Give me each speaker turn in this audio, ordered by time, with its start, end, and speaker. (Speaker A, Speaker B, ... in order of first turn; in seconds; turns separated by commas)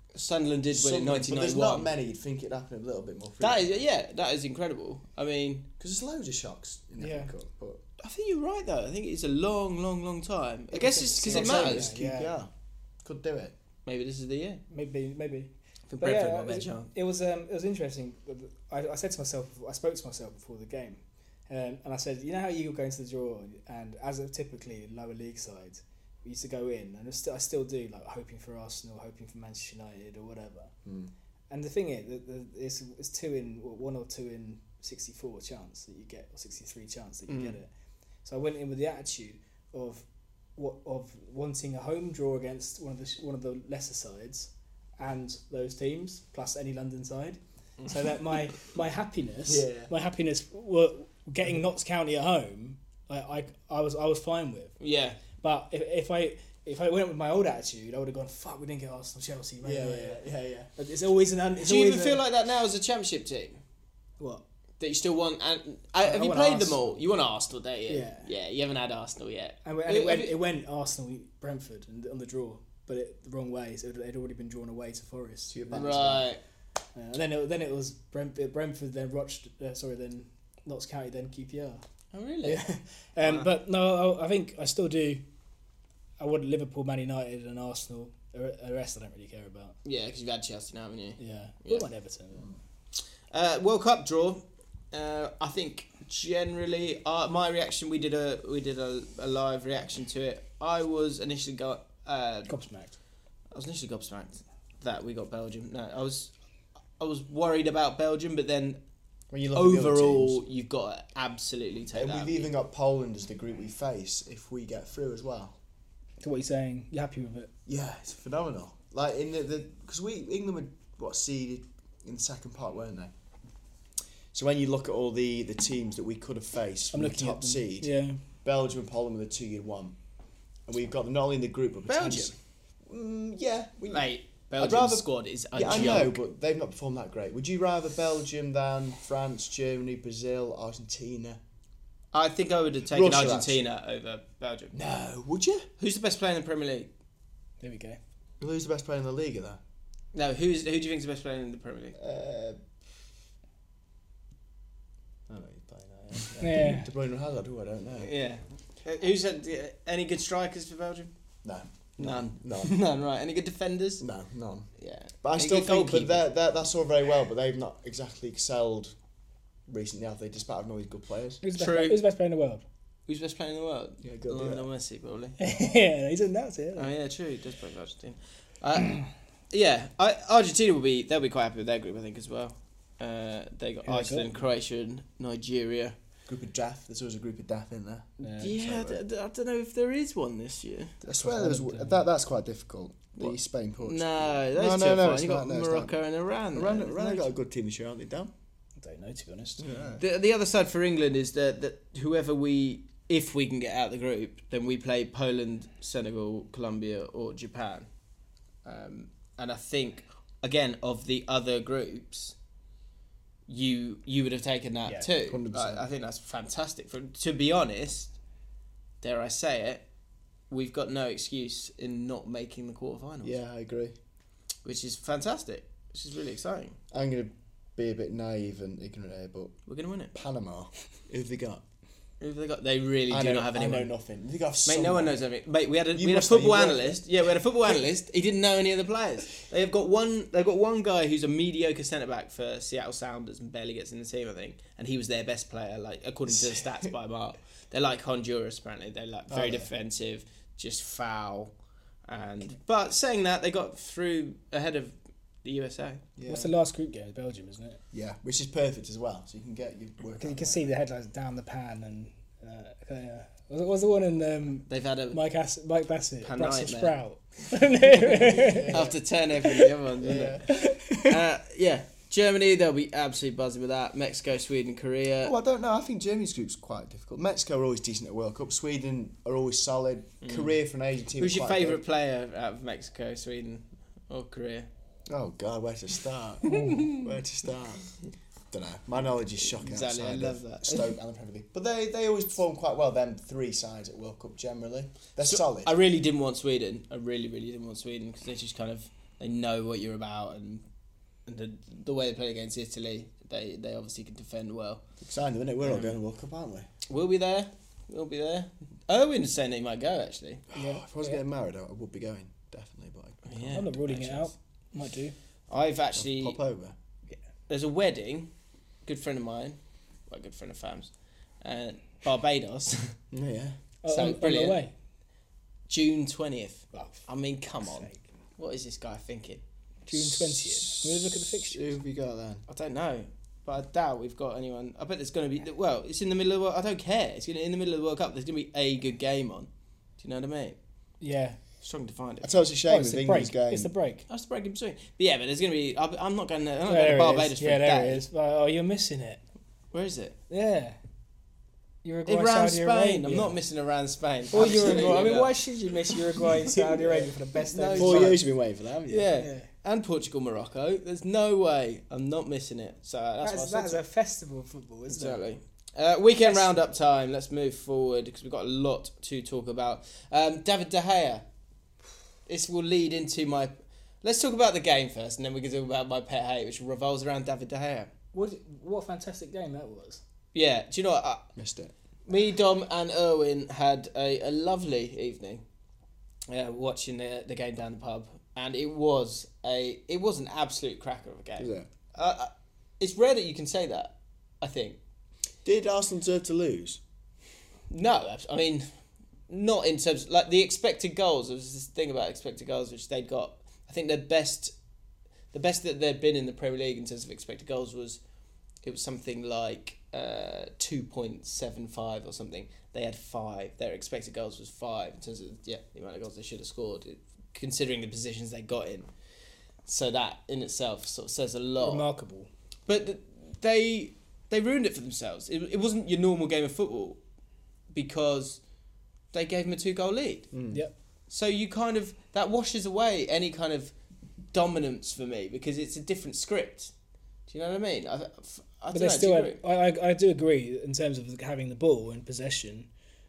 Speaker A: 0.1-1.9, Speaker B: 0.7-3.8, Speaker A: 3.4-5.7, Speaker B: 5.8-7.8, Speaker C: 7.0-7.3, Speaker A: 8.0-11.9, Speaker C: 10.7-12.3, Speaker B: 11.2-12.5, Speaker B: 13.0-13.5, Speaker A: 13.8-14.6, Speaker C: 14.7-30.7, Speaker A: 15.9-16.9, Speaker B: 30.8-31.1, Speaker C: 31.5-37.7, Speaker A: 37.3-37.5, Speaker C: 38.2-54.8, Speaker B: 49.5-49.9, Speaker A: 54.8-55.2, Speaker C: 55.4-62.2, Speaker B: 59.6-60.7, Speaker A: 61.6-63.6, Speaker A: 64.8-70.3, Speaker C: 66.0-67.0, Speaker C: 67.9-68.3, Speaker C: 69.6-76.1, Speaker B: 75.5-76.3, Speaker A: 75.7-76.4, Speaker C: 76.9-81.8, Speaker A: 82.1-82.6, Speaker C: 82.4-85.2, Speaker A: 83.2-83.5, Speaker C: 86.2-89.8, Speaker A: 89.8-91.9, Speaker C: 91.2-92.5, Speaker A: 93.3-102.6, Speaker C: 102.5-103.0, Speaker A: 103.5-106.3, Speaker A: 107.0-108.8, Speaker B: 109.3-110.4, Speaker A: 109.5-112.5, Speaker B: 111.9-115.5, Speaker C: 116.2-117.5, Speaker B: 117.7-123.1, Speaker B: 124.3-130.0, Speaker C: 126.9-128.2, Speaker B: 130.7-141.4, Speaker A: 131.9-132.3, Speaker A: 133.9-136.2, Speaker A: 142.1-144.8, Speaker B: 142.9-143.6, Speaker B: 144.7-145.7, Speaker A: 145.8-146.9, Speaker C: 147.6-148.0, Speaker B: 148.4-149.6, Speaker A: 150.1-152.0, Speaker B: 152.0-152.6, Speaker B: 155.3-158.1, Speaker C: 156.4-156.9, Speaker A: 158.0-161.1, Speaker B: 161.4-162.8, Speaker A: 162.0-164.1, Speaker B: 164.0-168.9, Speaker A: 164.8-166.3, Speaker B: 169.7-171.4, Speaker C: 171.4-172.6, Speaker A: 171.5-172.0, Speaker A: 173.1-175.4, Speaker B: 174.0-174.7, Speaker C: 175.4-176.9, Speaker A: 176.8-185.9, Speaker C: 183.8-184.4, Speaker B: 186.3-189.0, Speaker C: 188.2-188.6, Speaker A: 188.4-190.9, Speaker B: 191.0-195.9, Speaker C: 191.1-192.0, Speaker A: 193.2-197.3, Speaker B: 196.5-198.3, Speaker C: 198.8-199.6, Speaker B: 199.6-200.0, Speaker A: 200.0-207.9, Speaker A: 208.6-212.3, Speaker A: 213.5-218.1, Speaker B: 215.2-215.8, Speaker A: 219.0-219.8, Speaker A: 220.5-223.4, Speaker B: 223.2-223.9, Speaker A: 224.6-226.8, Speaker B: 226.9-229.6, Speaker A: 229.7-230.1, Speaker B: 230.1-231.6, Speaker A: 232.2-233.9, Speaker B: 233.1-235.2, Speaker A: 234.6-251.5, Speaker B: 235.9-237.0, Speaker B: 246.3-246.6, Speaker B: 249.3-249.7, Speaker A: 252.1-256.1, Speaker B: 256.2-256.5, Speaker C: 256.3-257.8, Speaker B: 257.9-260.7, Speaker C: 260.2-268.8, Speaker A: 264.7-265.2, Speaker A: 266.2-267.0, Speaker A: 268.1-275.3, Speaker B: 268.2-268.9, Speaker B: 270.0-270.5, Speaker C: 270.4-271.1, Speaker B: 275.2-281.8, Speaker A: 280.2-280.5, Speaker A: 281.2-284.7, Speaker B: 285.1-287.9, Speaker C: 286.5-286.8, Speaker A: 286.5-287.0, Speaker B: 288.5-295.7, Speaker A: 289.4-290.9, Speaker A: 295.2-300.6, Speaker A: 301.3-304.8, Speaker B: 305.0-306.7, Speaker A: 305.6-305.9, Speaker A: 306.9-310.4, Speaker B: 310.5-314.1, Speaker C: 310.5-311.2, Speaker A: 313.2-314.3, Speaker C: 313.5-315.1, Speaker A: 315.5-316.4, Speaker B: 315.9-316.8, Speaker A: 317.5-318.3, Speaker A: 318.9-319.6, Speaker A: 320.1-320.9, Speaker A: 321.4-322.9, Speaker B: 323.1-323.6, Speaker C: 323.8-324.7, Speaker A: 323.9-324.6, Speaker A: 325.7-329.4, Speaker C: 326.7-327.1, Speaker C: 327.6-328.0, Speaker C: 329.9-331.6, Speaker B: 329.9-332.4, Speaker A: 332.5-340.6, Speaker C: 341.0-341.4, Speaker A: 341.6-342.3, Speaker B: 342.2-343.7, Speaker C: 342.7-344.0, Speaker A: 344.1-348.0, Speaker C: 346.7-349.2, Speaker A: 349.7-350.1, Speaker C: 350.3-350.8, Speaker C: 351.8-353.4, Speaker A: 352.1-355.4, Speaker C: 354.3-358.2, Speaker B: 354.3-355.1, Speaker A: 357.5-358.2, Speaker B: 357.8-359.1, Speaker A: 358.9-363.8, Speaker C: 359.1-359.5, Speaker C: 363.2-365.2, Speaker A: 364.9-371.2, Speaker C: 366.2-366.6, Speaker A: 372.3-377.9, Speaker C: 378.1-380.0, Speaker A: 380.3-381.3, Speaker B: 381.4-381.7, Speaker A: 382.1-385.4, Speaker A: 386.3-394.8, Speaker B: 391.4-391.7, Speaker B: 395.4-396.8, Speaker A: 397.7-398.7, Speaker A: 399.3-404.5, Speaker A: 405.3-408.0, Speaker A: 408.6-418.9, Speaker A: 419.6-421.9, Speaker C: 421.6-422.3, Speaker A: 422.7-427.0, Speaker A: 427.7-428.4, Speaker A: 429.1-430.3, Speaker B: 430.3-430.6, Speaker A: 431.1-433.7, Speaker A: 434.3-436.7, Speaker A: 437.3-439.4, Speaker C: 438.7-442.7